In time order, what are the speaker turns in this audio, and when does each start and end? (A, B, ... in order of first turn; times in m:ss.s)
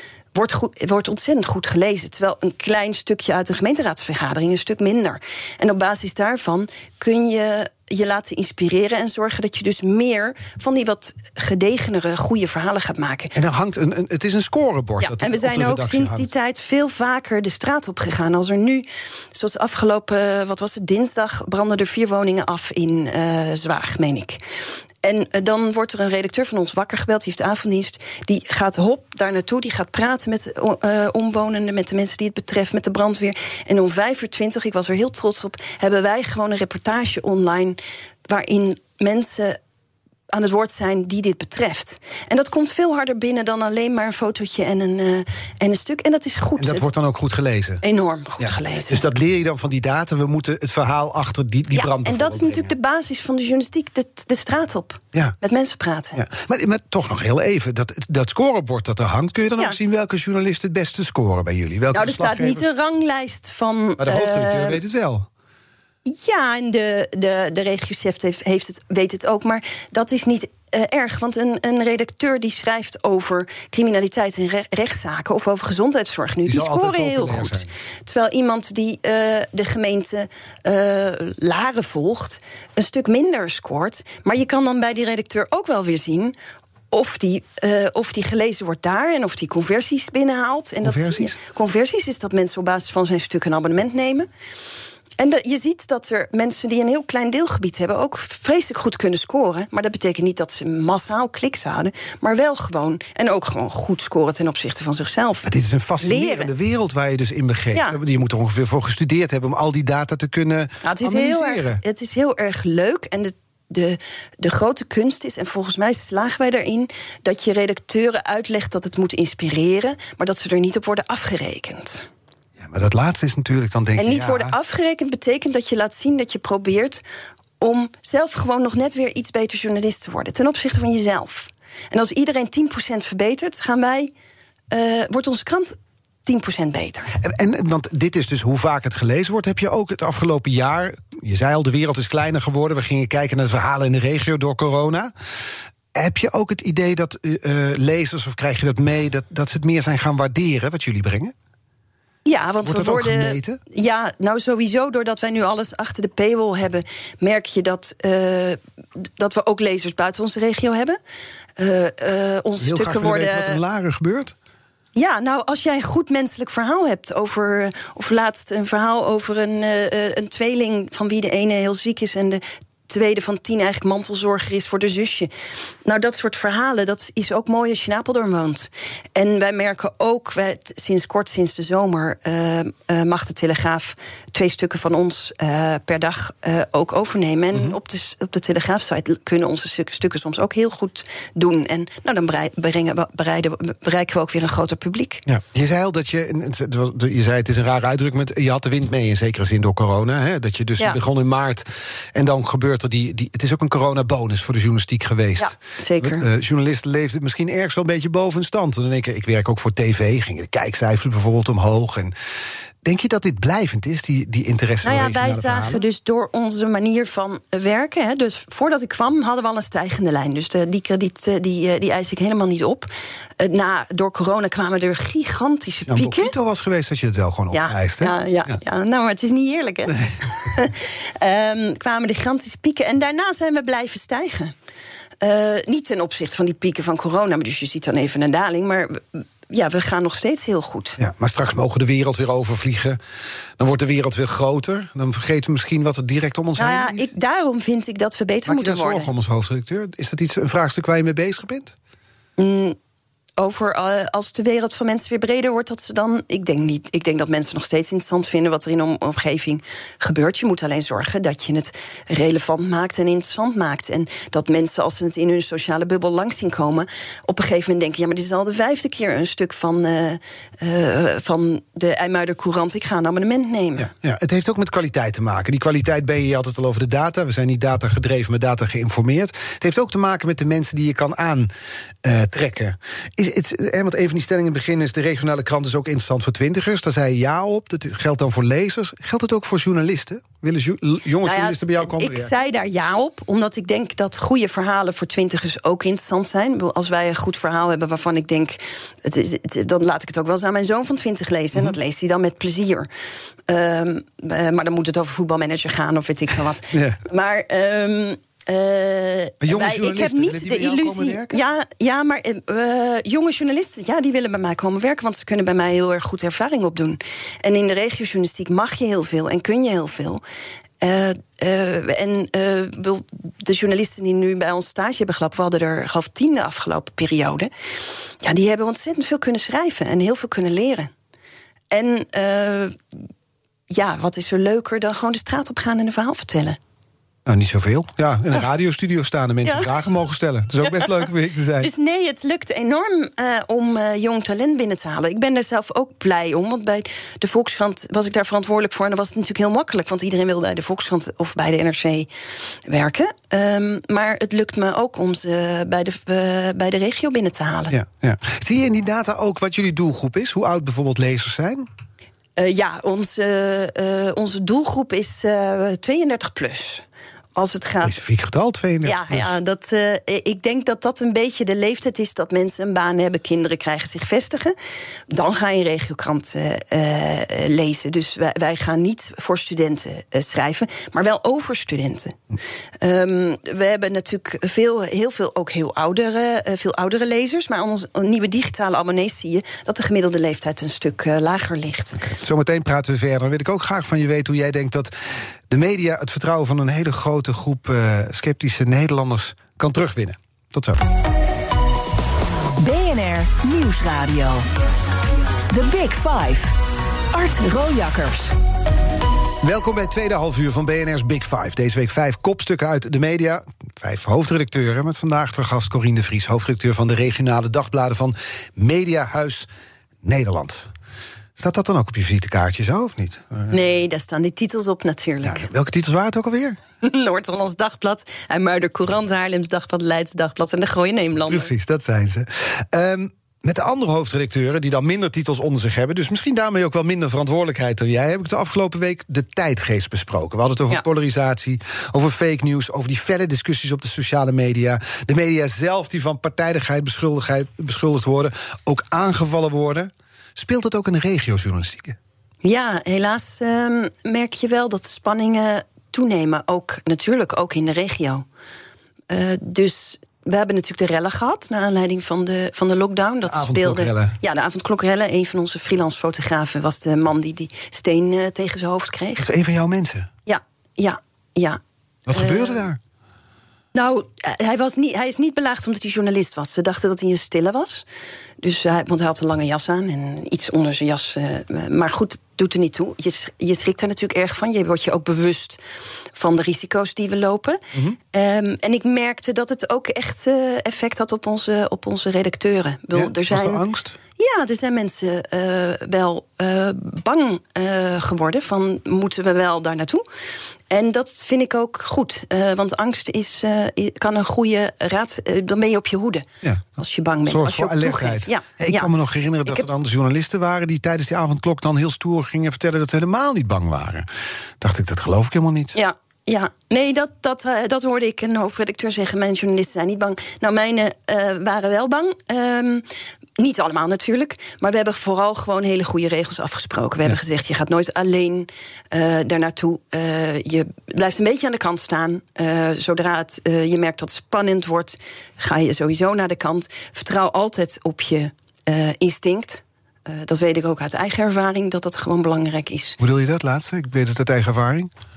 0:00.3-0:13.3 A
0:13.3-0:16.3 B
0:15.0-0:24.4 A
0:25.0-0:39.6 A
0:40.3-0:46.9 A
0:46.6-0:47.8 B
0:47.8-0:49.0 A
0:48.4-0:52.7 B
0:51.7-0:56.2 A
0:56.1-1:02.7 B
1:01.9-1:04.8 A
1:04.0-1:05.3 B
1:06.0-1:26.3 A
1:16.4-1:17.7 B
1:26.9-1:34.3 A
1:30.8-1:31.3 B
1:35.2-1:45.5 A
1:45.4-1:51.8 B
1:46.0-1:46.5 A
1:47.7-1:48.0 A
1:50.8-2:02.1 A
2:02.6-2:04.6 B
2:04.0-2:07.0 A
2:07.6-2:14.1 A
2:14.7-2:17.1 A
2:17.2-2:25.1 B
2:25.9-2:31.3 B
2:32.2-2:41.0 A
2:32.6-2:33.6 B
2:41.6-2:43.6 A
2:42.6-2:44.3 B
2:45.0-2:55.3 A
2:55.8-3:15.2 A
3:15.2-3:32.1 B
3:25.4-3:26.2 A
3:32.8-3:35.8 B
3:34.8-3:46.3 A
3:45.9-3:48.5 B
3:47.5-3:54.5 A
3:55.2-4:01.0 A
4:01.0-4:03.0 B
4:03.6-4:07.1 B
4:06.6-4:09.1 A
4:08.5-4:11.8 B
4:12.4-4:12.8 A
4:13.4-4:33.9 A
4:33.8-4:41.5 B
4:42.0-4:52.3 B
4:51.2-5:02.9 A
5:03.5-5:20.2 A
5:06.7-5:07.0 B
5:09.4-5:11.4 B
5:20.8-5:27.5 A
5:28.2-5:30.9 A
5:31.7-5:32.8 A
5:33.7-5:36.6 A
5:37.2-5:41.7 B
5:39.4-5:39.8 A
5:40.6-5:41.1 A
5:41.6-5:52.1 A
5:52.7-5:57.7 A
5:57.7-6:01.7 B
6:02.4-6:06.8 A
6:07.4-6:08.0 A
6:07.8-6:09.3 B
6:08.8-6:14.5 A
6:15.1-6:22.2 A
6:22.8-6:32.1 A
6:32.0-6:34.9 B
6:35.5-6:40.8 B
6:42.6-6:44.4 C
6:45.5-6:46.5 C
6:47.1-6:48.4 C
6:49.4-6:59.5 B
7:00.0-7:00.7 B
7:01.4-7:03.6 B
7:03.5-7:05.5 A
7:05.2-7:06.6 B
7:06.8-7:11.5 A
7:11.3-7:32.0 B
7:32.4-7:38.2 A
7:39.1-7:49.3 A
7:43.3-7:44.2 B
7:49.2-7:50.1 B
7:50.2-7:51.6 A
7:52.1-7:52.8 B
7:52.1-7:52.6 A
7:53.7-7:57.8 A
7:58.4-8:05.6 A
8:06.2-8:13.6 A
8:12.9-8:14.0 B
8:14.2-8:20.0 A
8:20.7-8:28.9 A
8:27.2-8:34.1 B
8:34.6-8:35.8 B
8:35.7-8:42.8 A
8:43.4-9:03.0 A
9:03.0-9:04.9 B